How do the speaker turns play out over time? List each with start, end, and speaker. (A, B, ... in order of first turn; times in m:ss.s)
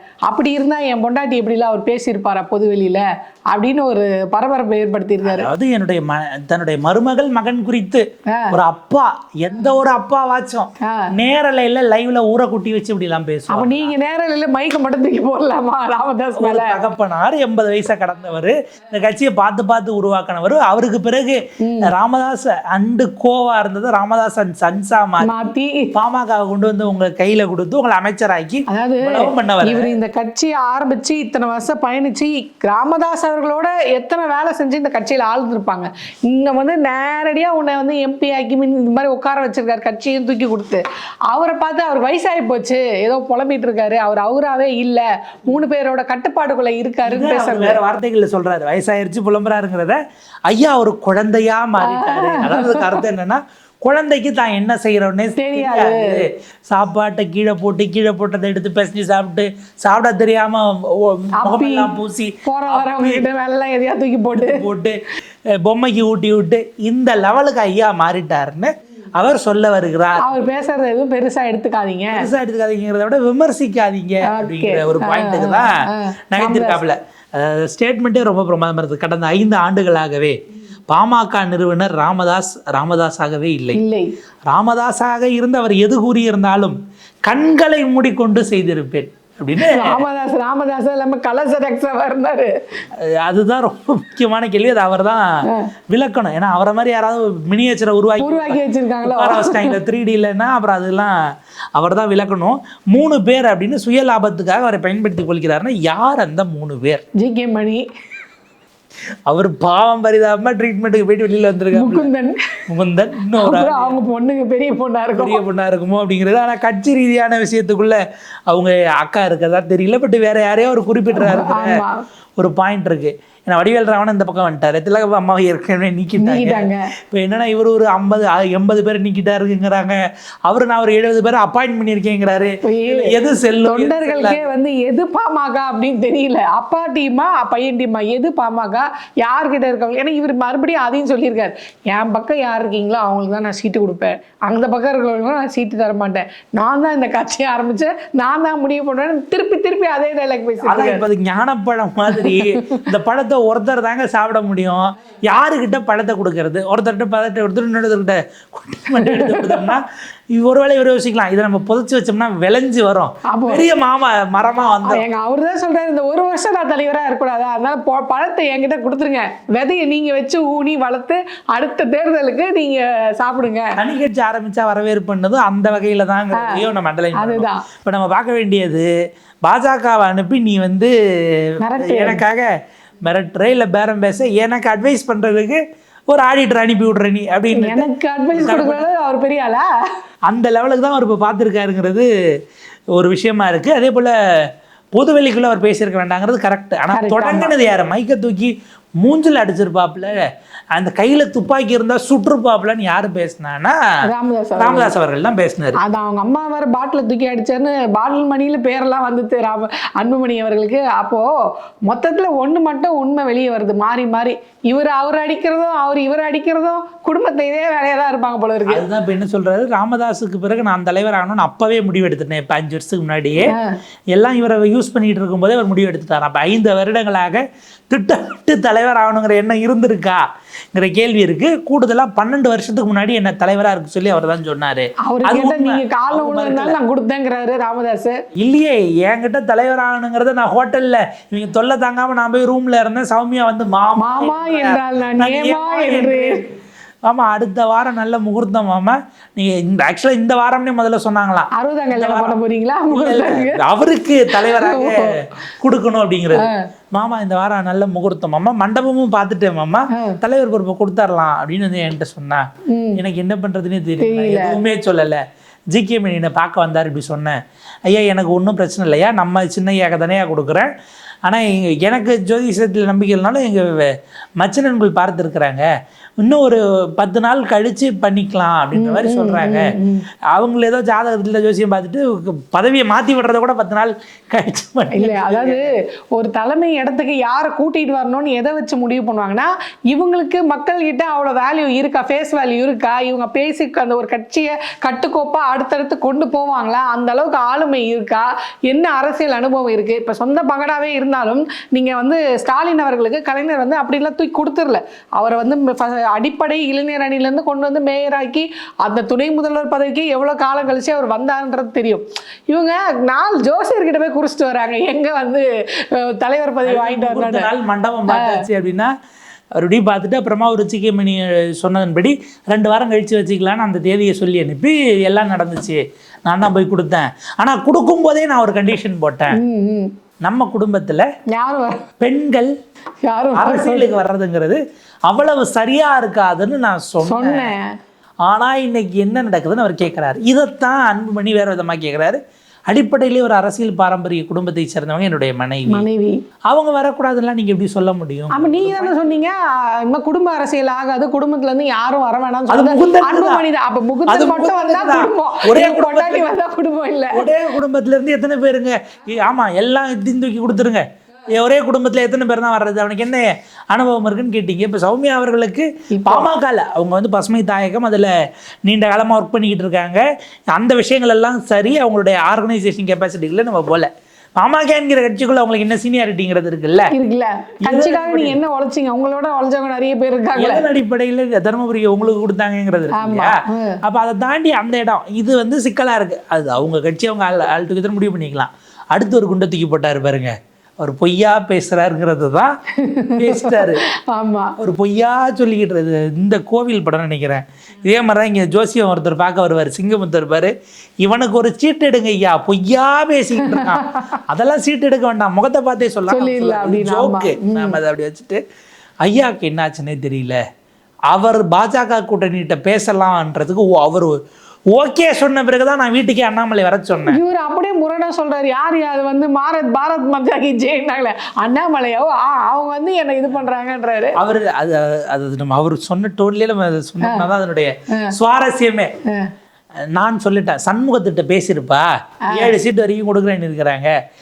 0:00.3-0:05.5 A
0:05.2-0:13.9 B
0:08.3-0:08.6 A
0:10.8-0:11.1 A
0:13.5-0:16.8 A
0:16.4-0:25.3 B
0:21.6-0:21.9 A
0:25.2-0:25.9 A
0:25.9-0:30.0 B
0:28.7-0:47.8 A
0:47.0-0:50.0 B
0:50.5-1:03.3 B
0:51.8-0:53.0 A
0:55.4-0:56.2 A
1:01.4-1:01.9 A
1:02.4-1:04.6 A
1:04.4-1:05.0 B
1:05.6-1:10.3 B
1:10.2-1:12.3 A
1:12.1-1:15.7 B
1:14.3-1:16.8 A
1:16.3-1:20.4 B
1:20.9-1:23.8 B
1:23.7-1:24.1 A
1:24.5-1:30.0 B
1:29.6-1:32.5 A
1:33.0-1:35.2 B
1:35.9-1:41.2 B
1:38.2-1:39.7 A
1:41.8-1:47.0 B
1:47.2-1:47.8 A
1:49.3-1:52.1 B
1:51.7-1:52.6 A
1:52.7-1:54.0 B
1:53.4-1:55.4 A
1:55.2-2:01.8 B
2:01.2-2:02.0 A
2:02.4-2:14.4 B
2:06.2-2:06.8 A
2:12.6-2:31.0 A
2:30.6-2:45.0 B
2:32.1-2:32.8 A
2:39.0-2:39.8 A
2:43.3-2:43.6 A
2:44.8-2:53.7 A
2:53.8-2:58.9 B
2:56.4-2:56.6 A
2:57.2-2:57.6 A
2:59.4-3:00.9 B
3:01.6-3:02.2 A
3:01.8-3:02.5 B
3:03.0-3:08.8 B
3:07.5-3:09.7 A
3:10.3-3:12.1 B
3:13.0-3:14.1 B
3:15.0-3:20.2 B
3:16.9-3:17.5 A
3:20.7-3:23.8 B
3:24.0-3:24.9 A
3:24.6-3:25.8 B
3:25.8-3:31.3 A
3:31.9-3:38.8 A
3:38.7-3:43.5 B
3:43.5-3:43.8 A
3:44.2-3:50.2 B
3:50.7-3:56.8 B
3:55.0-3:58.2 A
3:58.4-4:06.5 B
4:04.0-4:06.4 A
4:07.1-4:12.4 B
4:11.6-4:13.6 A
4:12.9-4:27.4 B
4:14.3-4:15.2 A
4:19.9-4:20.2 A
4:22.7-4:23.0 A
4:24.0-4:24.6 A
4:27.9-4:30.7 B
4:31.3-4:35.7 B
4:36.2-4:39.7 B
4:38.8-4:40.1 A
4:40.3-4:45.7 B
4:44.9-5:17.5 A
5:16.6-5:18.9 B
5:18.1-5:18.4 A
5:19.6-5:29.4 B
5:29.4-5:29.9 A
5:30.2-5:31.1 B
5:31.3-5:31.9 A
5:32.0-5:32.5 B
5:33.0-5:33.9 A
5:33.4-5:37.5 B
5:37.0-5:37.7 A
5:38.3-5:45.9 B
5:45.7-5:46.2 A
5:46.5-5:49.2 B
5:48.3-5:57.3 A
5:52.5-5:53.4 B
5:54.1-5:56.3 B
5:57.1-6:08.1 B
6:05.9-6:06.3 A
6:08.6-6:10.0 B
6:10.5-6:16.9 B
6:16.9-6:20.6 A
6:17.6-6:18.4 B
6:20.4-6:32.5 B
6:22.9-6:23.8 A
6:32.8-6:34.6 A
6:33.2-6:33.8 B
6:34.6-6:40.5 B
6:41.0-6:48.4 B
6:43.4-6:44.2 A
6:46.1-6:47.8 A
6:49.0-6:50.4 B
6:51.1-6:54.2 B
6:54.8-6:57.2 B
6:57.1-7:04.2 A
7:04.2-7:08.9 B
7:07.0-7:07.3 A
7:10.0-7:13.9 B